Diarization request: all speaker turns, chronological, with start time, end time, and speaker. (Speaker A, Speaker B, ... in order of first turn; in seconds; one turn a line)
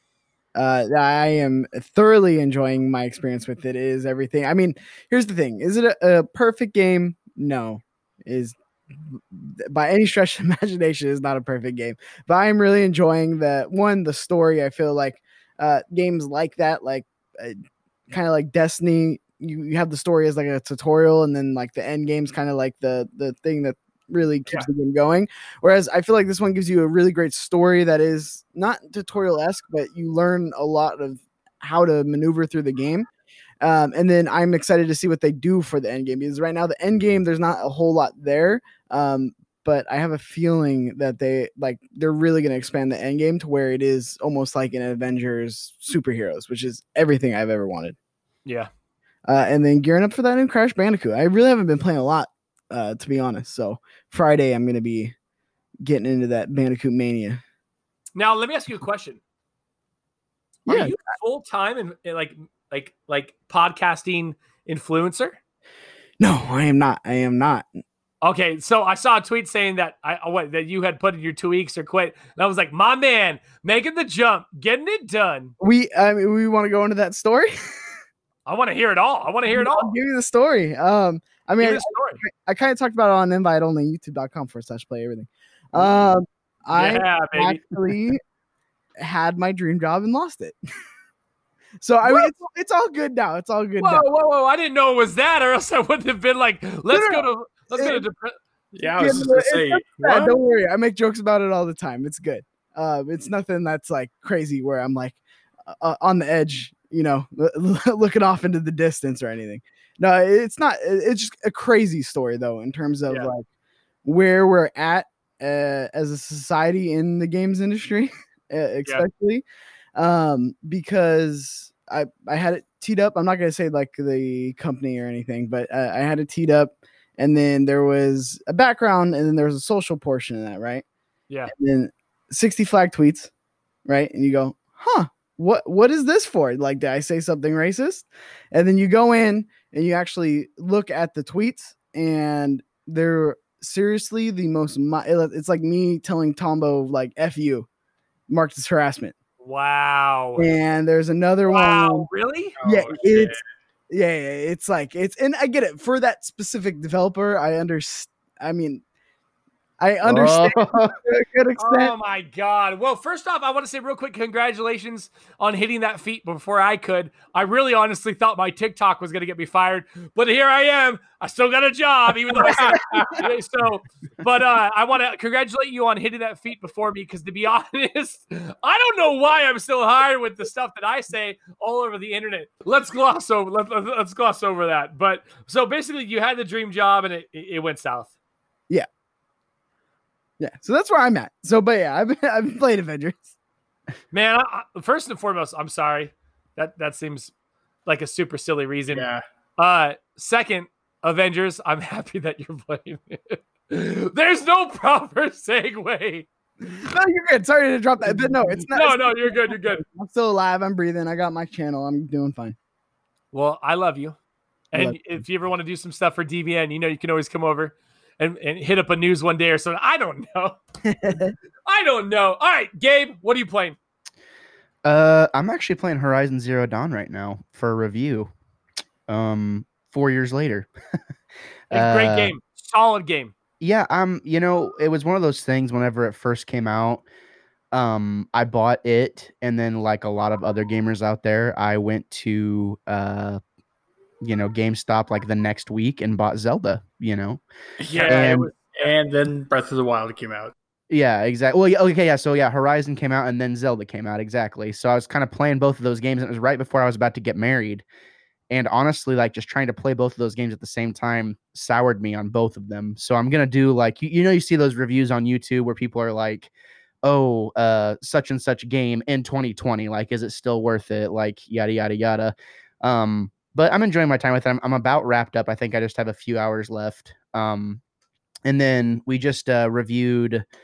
Speaker A: 0.5-33.1
Speaker A: 33.6-48.0
Speaker A: 49.2-55.1
Speaker A: 55.8-57.4
Speaker B: 58.1-59.2
Speaker A: 60.6-60.9
Speaker B: 60.7-65.4
Speaker A: 66.2-67.7
Speaker B: 68.2-75.5
Speaker A: 75.6-78.0
Speaker B: 78.5-79.9
Speaker A: 79.5-88.2
Speaker B: 81.6-82.2
Speaker B: 86.7-87.6
Speaker A: 89.0-90.5
Speaker A: 91.8-94.0
Speaker B: 92.0-92.3
Speaker B: 93.8-98.4
Speaker A: 96.9-98.0
Speaker C: 98.8-100.3
Speaker A: 99.0-113.4
Speaker A: 114.0-119.4
Speaker A: 120.0-130.8
Speaker A: 131.5-133.3
Speaker A: 133.8-147.7
Speaker A: 148.3-149.1
Speaker B: 149.4-150.5
Speaker A: 150.4-152.1
Speaker B: 151.5-152.6
Speaker C: 152.6-153.4
Speaker A: 152.6-158.8
Speaker A: 159.8-161.9
Speaker D: 160.0-160.9
Speaker B: 161.6-188.1
Speaker C: 172.4-173.3
Speaker A: 172.4-173.1
Speaker A: 190.4-193.3
Speaker B: 194.1-197.3
Speaker B: 197.8-199.1
Speaker C: 198.9-199.2
Speaker B: 199.6-206.3
Speaker A: 206.7-212.6
Speaker B: 208.7-209.8
Speaker B: 213.3-214.2
Speaker B: 214.7-220.6
Speaker A: 214.7-215.0
Speaker A: 220.9-221.3
Speaker B: 221.7-223.8
Speaker D: 224.8-228.3
Speaker D: 229.1-230.7
Speaker D: 231.7-232.3
Speaker B: 231.7-233.3
Speaker D: 233.6-237.0
Speaker D: 237.7-243.4
Speaker D: 244.2-247.4
Speaker C: 247.8-250.5
Speaker B: 247.9-248.9
Speaker D: 248.0-248.5
Speaker D: 250.9-257.8
Speaker D: 258.5-266.5
Speaker D: 267.0-277.8
Speaker D: 278.4-280.4